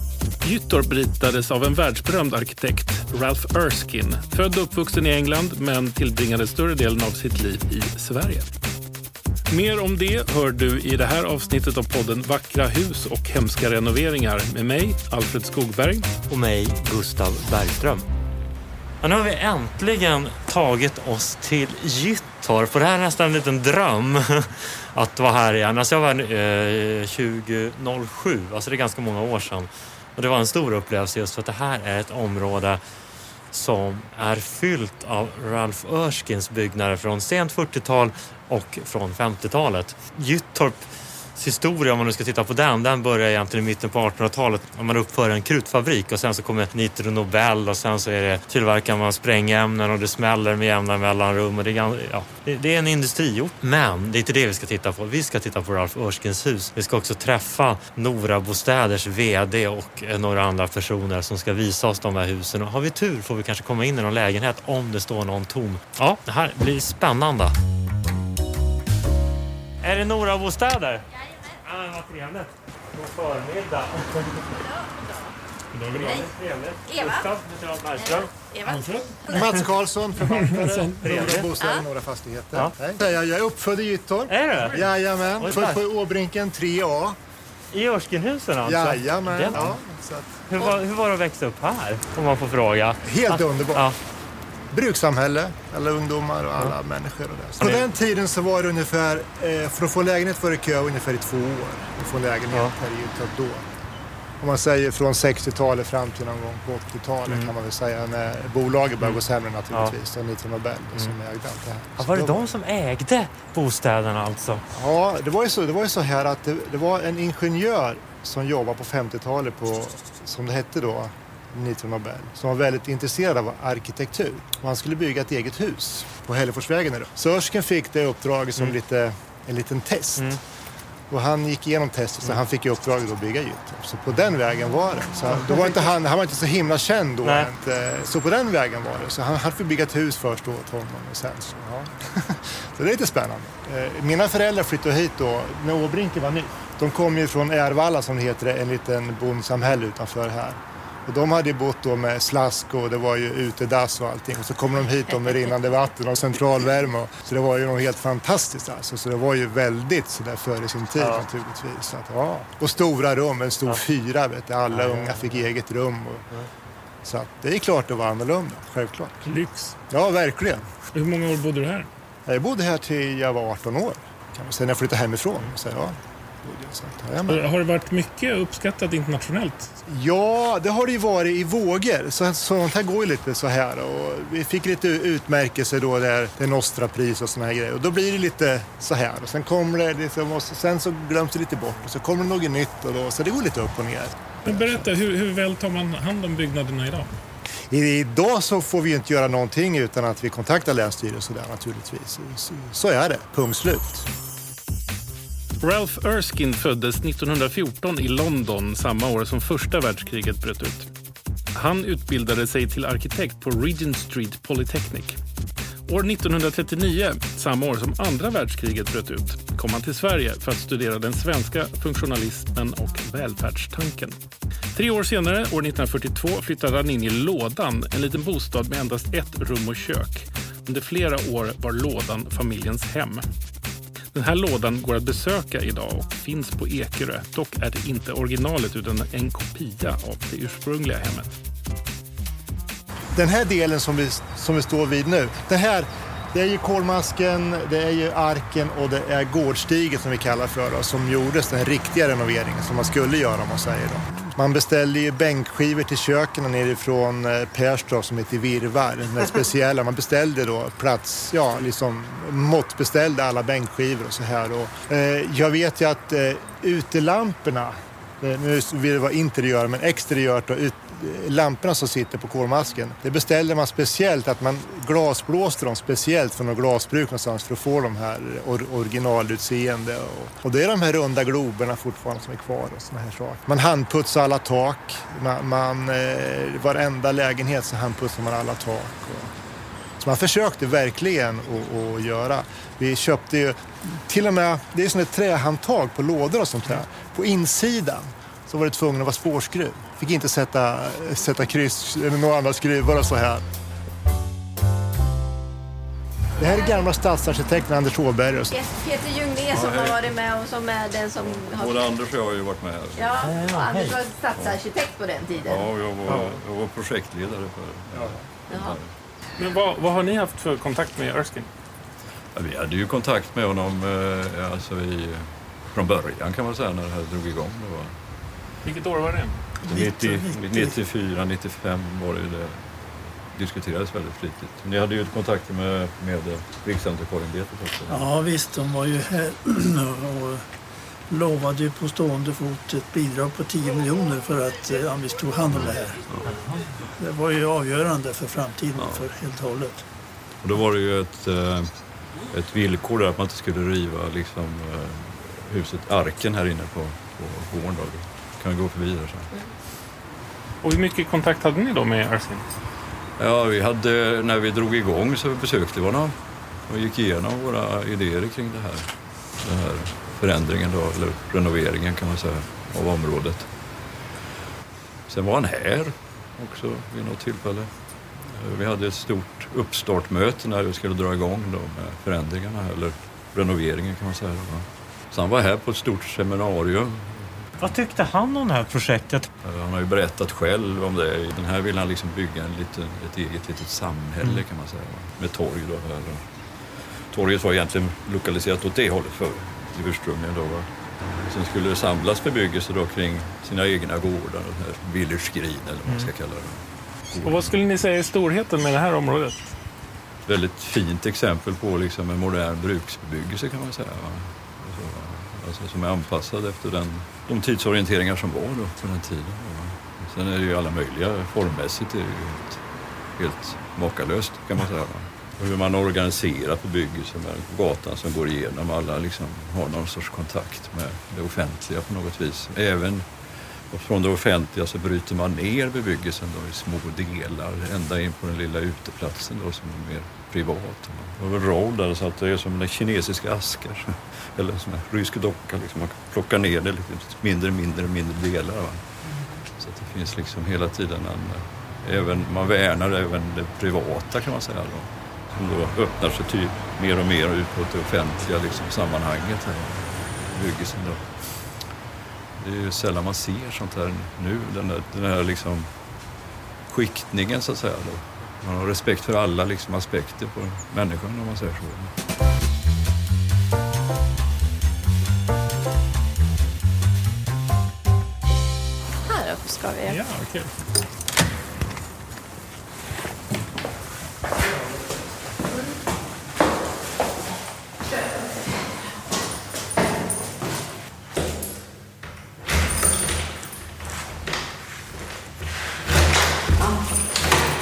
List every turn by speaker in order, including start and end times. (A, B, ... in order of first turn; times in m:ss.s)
0:00.4-0:08.5 A
0:09.5-0:16.1 A
0:16.3-0:18.0 B
0:19.0-0:32.8 B
0:33.5-1:07.5 B
1:09.8-1:14.6 B
1:15.7-1:16.2 A
1:15.9-1:18.3 B
1:16.9-1:17.3 C
1:18.0-1:19.5 C
1:18.6-1:19.1 A
1:19.3-1:27.2 D
1:19.4-1:19.6 B
1:20.3-1:21.5 B
1:21.6-1:21.8 C
1:24.3-1:24.9 B
1:25.4-1:25.8 B
1:27.7-1:29.7 B
1:28.6-1:30.4 D
1:30.5-1:34.0 B
1:33.0-1:33.9 D
1:34.7-1:43.6 D
1:44.4-1:52.5 D
1:52.0-1:54.6 B
1:54.7-2:10.3 D
2:11.1-2:46.2 D
2:15.3-2:15.9 B
2:17.2-2:17.5 B
2:41.0-2:41.2 B
2:44.7-2:45.5 B
2:47.0-2:49.2 D
2:49.2-2:49.7 A
2:49.9-2:50.7 D
2:50.9-2:51.9 A
2:52.2-2:57.4 D
2:57.3-2:59.7 A
2:59.9-3:14.8 D
3:14.4-3:17.1 A
3:17.7-3:24.1 D
3:25.6-3:30.9 A
3:31.5-3:35.2 A
3:35.9-3:44.2 A
3:44.7-3:53.2 A
3:54.1-4:01.3 A
4:03.1-4:49.3 D
4:50.0-5:03.4 D
5:06.4-5:08.6 D
5:06.4-5:06.8 C
5:08.5-5:11.8 C
5:09.4-5:10.2 E
5:11.1-5:13.4 E
5:13.0-5:15.7 C
5:13.2-5:14.0 B
5:14.2-5:14.6 E
5:15.3-5:18.9 E
5:16.1-5:16.3 D
5:18.5-5:18.8 C
5:19.4-5:21.5 A
5:22.3-5:27.9 E
5:28.6-5:29.4 A
5:29.6-5:38.1 E
5:29.7-5:30.7 F
5:37.9-5:40.4 F
5:41.1-5:46.0 F
5:45.5-5:46.7 E
5:47.0-5:49.8 F
5:48.7-5:49.1 E
5:50.4-5:51.7 E
5:52.3-5:59.3 E
6:00.6-6:02.4 A
6:03.2-6:06.1 E
6:06.7-6:08.8 E
6:09.4-6:13.5 E
6:15.1-6:17.7 E
6:18.3-6:27.5 E
6:27.6-6:29.3 B
6:29.4-6:36.2 E
6:37.1-6:47.6 E
6:47.2-6:49.4 A
6:50.2-7:02.6 E
7:03.2-7:13.0 E
7:13.7-7:28.8 E
7:29.6-7:41.0 E
7:42.4-7:45.7 E
7:46.7-7:51.9 E
7:59.0-8:00.0 C
7:59.8-8:00.5 A
8:07.9-8:08.2 C
8:16.6-8:16.8 C